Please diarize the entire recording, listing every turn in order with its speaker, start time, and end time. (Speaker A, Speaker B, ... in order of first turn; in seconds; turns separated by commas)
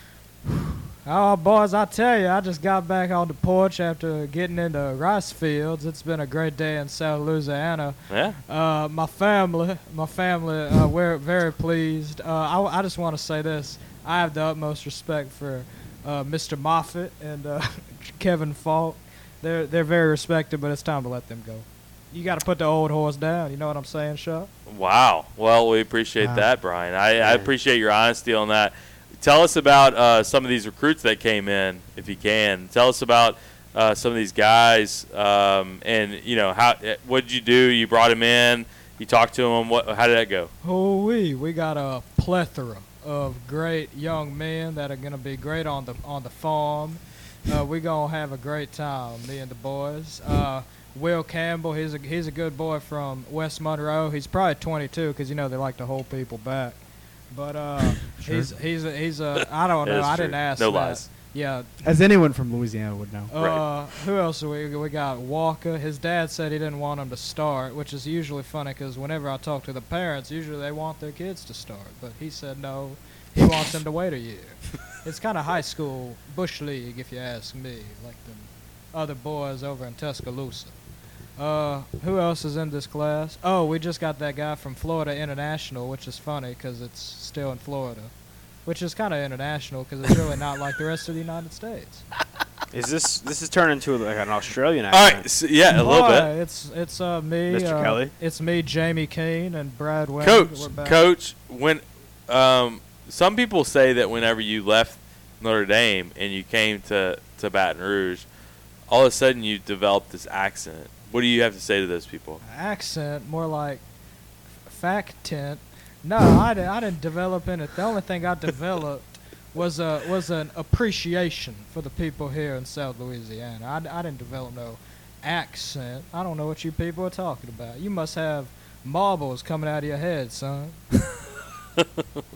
Speaker A: 1.0-24.5, Speaker B: 8.1-8.4, Speaker B: 24.7-40.5, Speaker C: 26.2-26.5, Speaker D: 27.2-27.5, Speaker A: 40.6-61.7, Speaker C: 58.2-58.5, Speaker B: 59.8-61.1, Speaker C: 61.8-63.3, Speaker A: 63.3-80.8, Speaker B: 63.4-63.6, Speaker A: 81.4-88.1, Speaker A: 88.7-92.0, Speaker D: 92.7-95.3, Speaker B: 94.9-96.3, Speaker A: 95.7-101.0, Speaker D: 97.5-98.1, Speaker B: 100.2-108.3, Speaker B: 108.9-112.4, Speaker A: 112.4-113.8, Speaker A: 114.7-131.0, Speaker B: 131.8-132.0